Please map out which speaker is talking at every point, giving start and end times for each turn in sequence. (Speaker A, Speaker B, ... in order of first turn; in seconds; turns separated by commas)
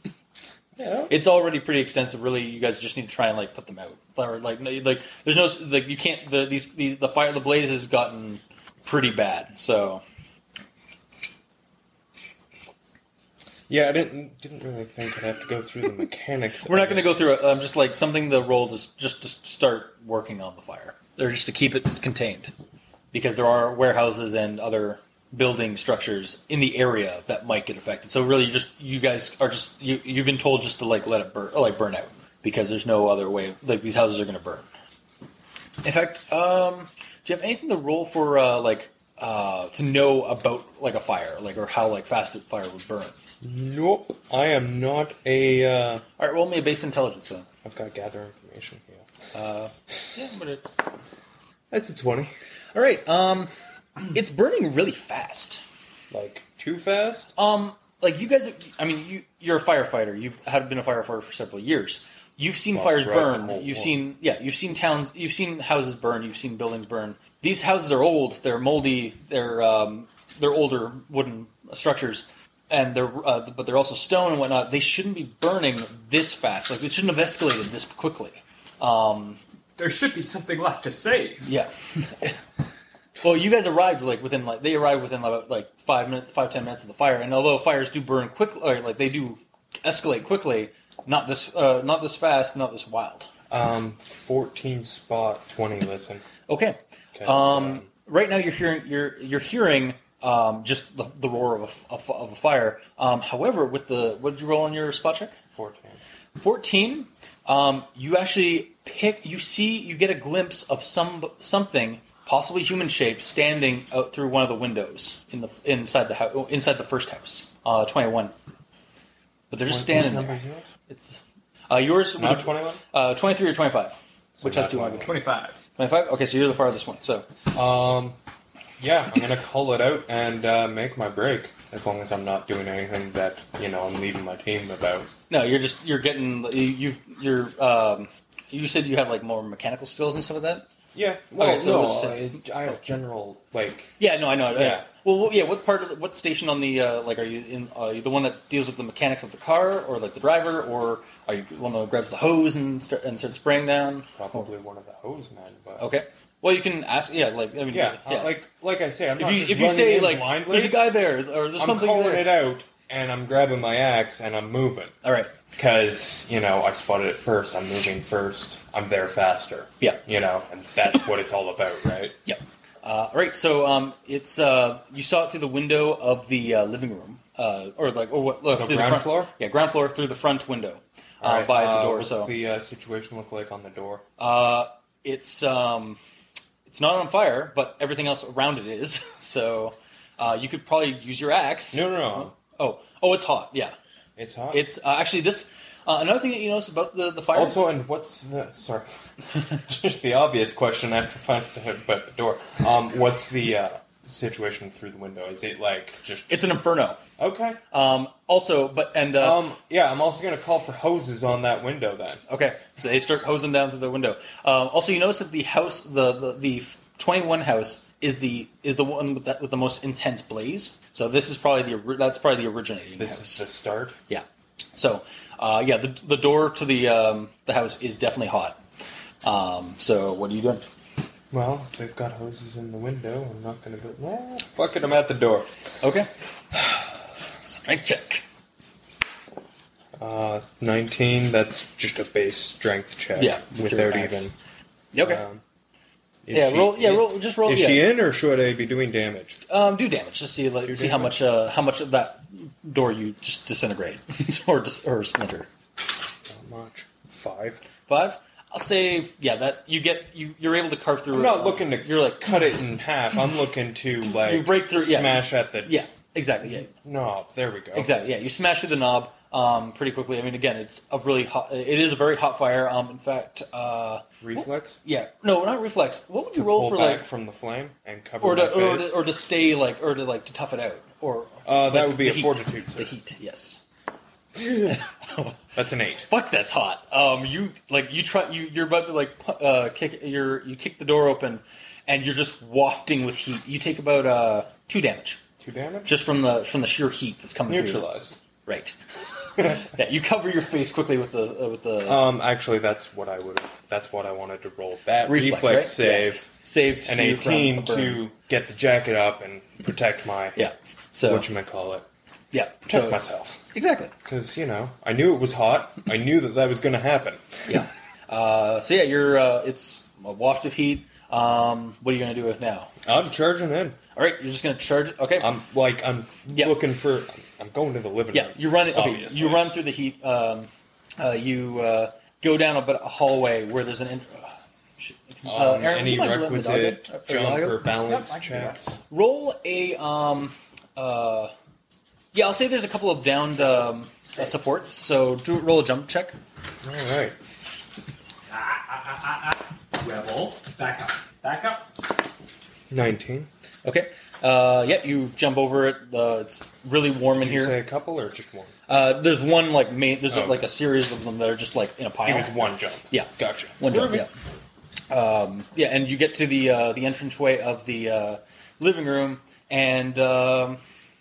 Speaker A: 0.8-1.1, Speaker B: 1.1-10.0, Speaker A: 13.7-17.1, Speaker B: 16.6-22.5, Speaker B: 23.1-34.7, Speaker B: 35.8-43.1, Speaker A: 43.4-46.0, Speaker B: 46.2-47.5, Speaker A: 47.6-49.0, Speaker B: 49.3-50.6, Speaker A: 51.7-52.3, Speaker B: 52.7-53.5, Speaker B: 54.1-55.6, Speaker A: 56.1-57.3, Speaker B: 57.4-79.4, Speaker A: 62.7-63.9, Speaker C: 79.8-81.5, Speaker B: 81.4-82.4, Speaker B: 83.2-93.3, Speaker A: 93.5-96.2, Speaker B: 96.5-105.3, Speaker A: 97.1-97.9, Speaker A: 105.5-106.0, Speaker B: 106.4-118.3, Speaker B: 119.5-125.1, Speaker A: 119.7-120.7, Speaker A: 122.2-122.8, Speaker A: 124.3-125.1, Speaker C: 125.0-125.6, Speaker B: 125.8-127.2, Speaker A: 127.5-128.2, Speaker A: 128.8-135.1, Speaker B: 135.3-140.7, Speaker A: 140.9-144.0, Speaker B: 141.3-142.3, Speaker B: 144.0-154.5, Speaker A: 144.5-144.8, Speaker A: 154.1-155.8, Speaker B: 155.8-158.3, Speaker A: 157.7-160.9, Speaker B: 159.2-162.4, Speaker A: 161.6-164.9, Speaker B: 165.0-165.3, Speaker A: 165.5-172.2, Speaker B: 172.2-182.3, Speaker A: 178.5-179.3, Speaker A: 181.2-184.0, Speaker B: 184.2-186.0, Speaker B: 186.7-193.7, Speaker A: 191.7-192.3, Speaker A: 194.2-194.6, Speaker B: 194.5-197.6, Speaker A: 197.3-206.4, Speaker B: 206.3-207.0, Speaker A: 207.2-207.6, Speaker B: 207.7-209.4, Speaker A: 209.2-212.2, Speaker B: 212.3-223.4, Speaker A: 223.0-223.9, Speaker B: 224.1-228.6, Speaker B: 229.2-230.6, Speaker A: 231.3-235.5, Speaker B: 235.8-236.1, Speaker B: 237.4-238.2, Speaker A: 240.0-244.3, Speaker B: 243.2-244.3, Speaker B: 244.9-245.2, Speaker A: 245.0-245.4, Speaker A: 246.2-249.4, Speaker B: 246.3-247.8, Speaker B: 249.5-255.5, Speaker A: 250.6-251.2, Speaker A: 256.3-257.6, Speaker B: 257.9-262.3, Speaker A: 261.1-265.8, Speaker B: 264.1-266.7, Speaker A: 266.5-267.9, Speaker B: 267.7-277.1, Speaker A: 274.2-274.8, Speaker A: 276.4-278.9, Speaker B: 278.2-283.6, Speaker A: 281.4-282.9, Speaker A: 284.3-284.8, Speaker B: 284.4-285.4, Speaker A: 285.5-286.1, Speaker B: 286.1-295.2, Speaker A: 295.4-295.9, Speaker B: 295.9-297.8, Speaker A: 297.4-298.2, Speaker B: 298.4-298.7, Speaker B: 299.3-302.0, Speaker A: 301.9-306.2, Speaker B: 305.1-308.0, Speaker A: 306.8-310.5, Speaker B: 310.4-311.3, Speaker A: 311.1-311.9, Speaker B: 312.3-313.0, Speaker A: 312.7-313.4, Speaker B: 313.5-313.9, Speaker A: 314.0-317.6, Speaker B: 317.5-322.7, Speaker A: 322.8-323.8, Speaker B: 323.9-325.3, Speaker A: 325.2-329.5, Speaker B: 328.1-337.6, Speaker A: 335.2-338.8, Speaker C: 337.8-338.6, Speaker B: 338.9-341.3, Speaker B: 342.1-346.2, Speaker A: 346.6-347.1, Speaker C: 348.3-351.8, Speaker A: 352.7-353.3, Speaker B: 353.6-357.6, Speaker A: 357.1-358.5, Speaker B: 358.7-364.1, Speaker A: 360.1-360.4, Speaker A: 362.1-364.1, Speaker B: 364.9-370.6